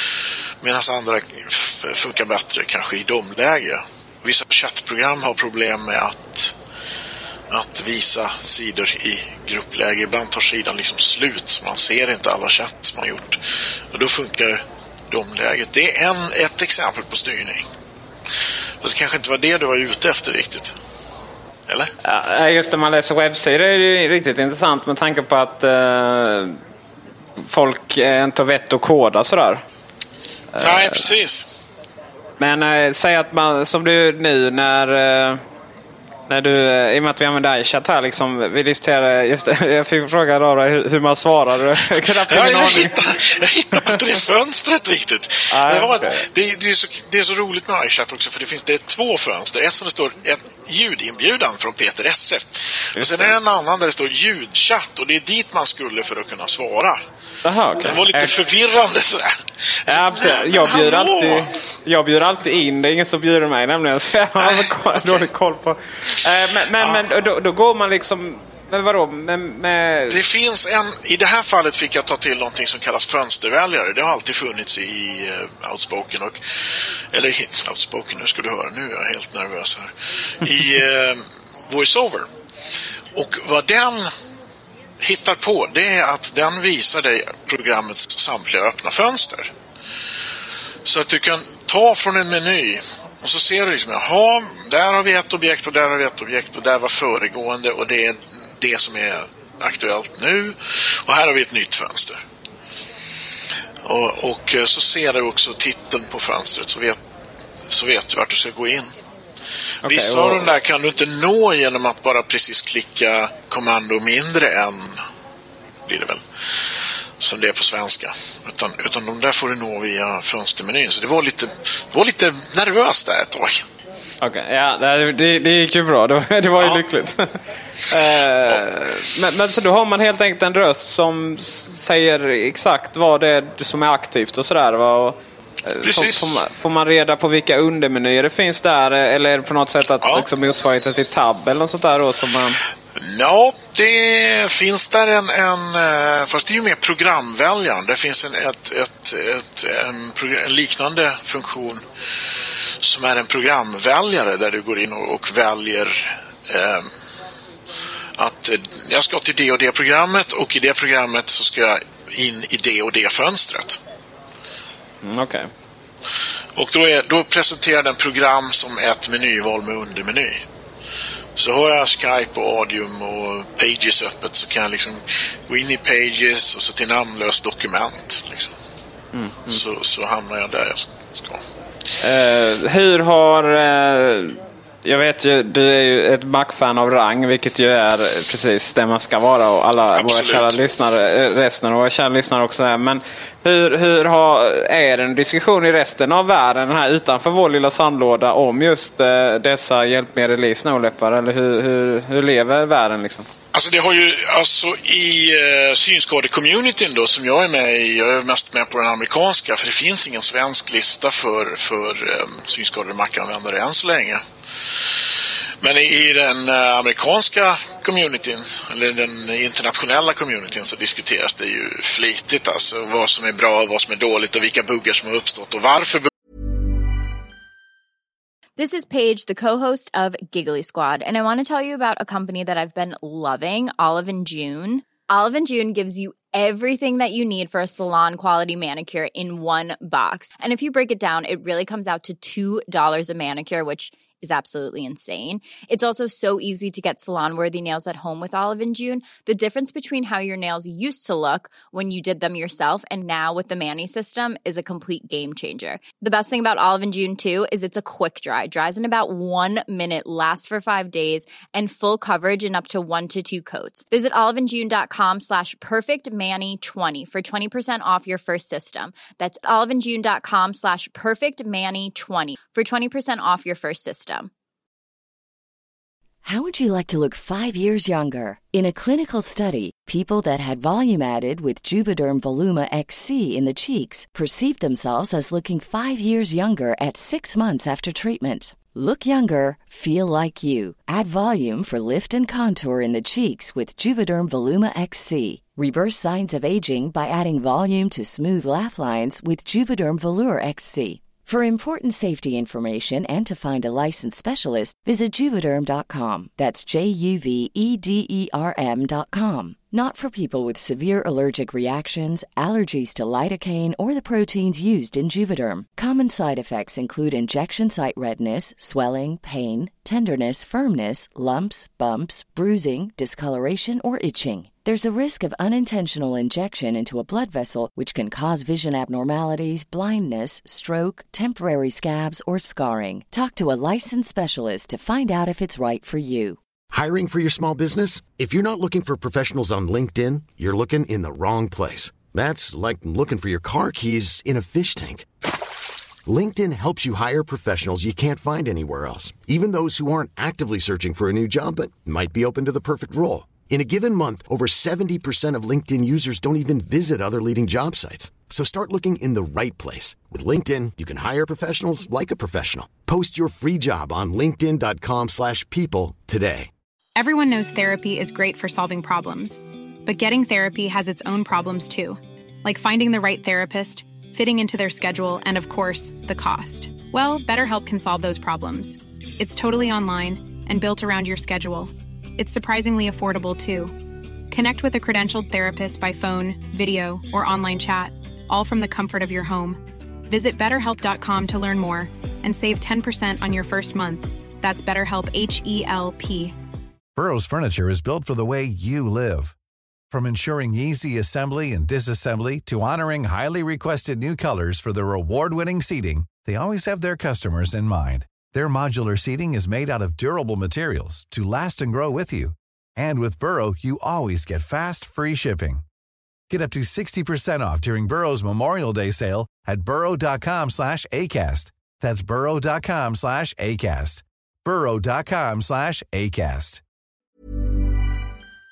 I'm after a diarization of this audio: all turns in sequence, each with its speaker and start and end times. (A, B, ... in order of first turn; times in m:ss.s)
0:00.6-0:06.5 A
0:07.5-0:13.4 A
0:13.9-0:17.7 A
0:18.8-0:20.8 A
0:22.0-0:26.6 B
0:27.5-0:29.6 B
0:30.6-0:31.1 B
0:30.6-0:31.5 A
0:32.4-0:35.4 B
0:36.3-0:43.0 B
0:42.3-0:57.0 A
0:45.5-0:46.2 B
0:53.0-0:53.4 B
0:57.4-0:58.4 B
0:57.8-1:01.5 A
0:59.9-1:10.2 B
1:04.4-1:05.3 A
1:10.1-1:16.4 A
1:17.1-1:19.9 A
1:20.4-1:22.3 A
1:23.2-1:24.1 A
1:25.0-1:29.5 A
1:30.8-1:42.2 A
1:43.8-1:47.0 A
1:47.7-1:48.9 A
1:49.8-1:50.5 B
1:49.8-1:55.0 A
1:55.9-1:56.2 A
1:57.2-2:03.6 A
2:04.2-2:07.4 B
2:07.9-2:22.6 B
2:15.8-2:16.4 A
2:23.0-2:31.8 A
2:32.8-2:36.9 A
2:38.2-2:43.8 A
2:45.0-2:45.5 B
2:46.6-2:50.4 A
2:51.4-2:58.5 A
2:59.1-2:59.6 B
2:59.5-3:01.4 A
3:02.0-3:23.3 B
3:10.0-3:10.6 A
3:23.5-3:34.2 A
3:35.6-3:46.1 A
3:48.6-4:34.3 C
4:36.2-5:36.4 D
5:36.7-5:45.1 E
5:46.1-6:06.5 E
6:07.0-6:23.8 F
6:24.3-6:36.4 F
6:37.0-6:39.4 G
6:39.9-6:55.6 G
6:56.3-7:06.6 G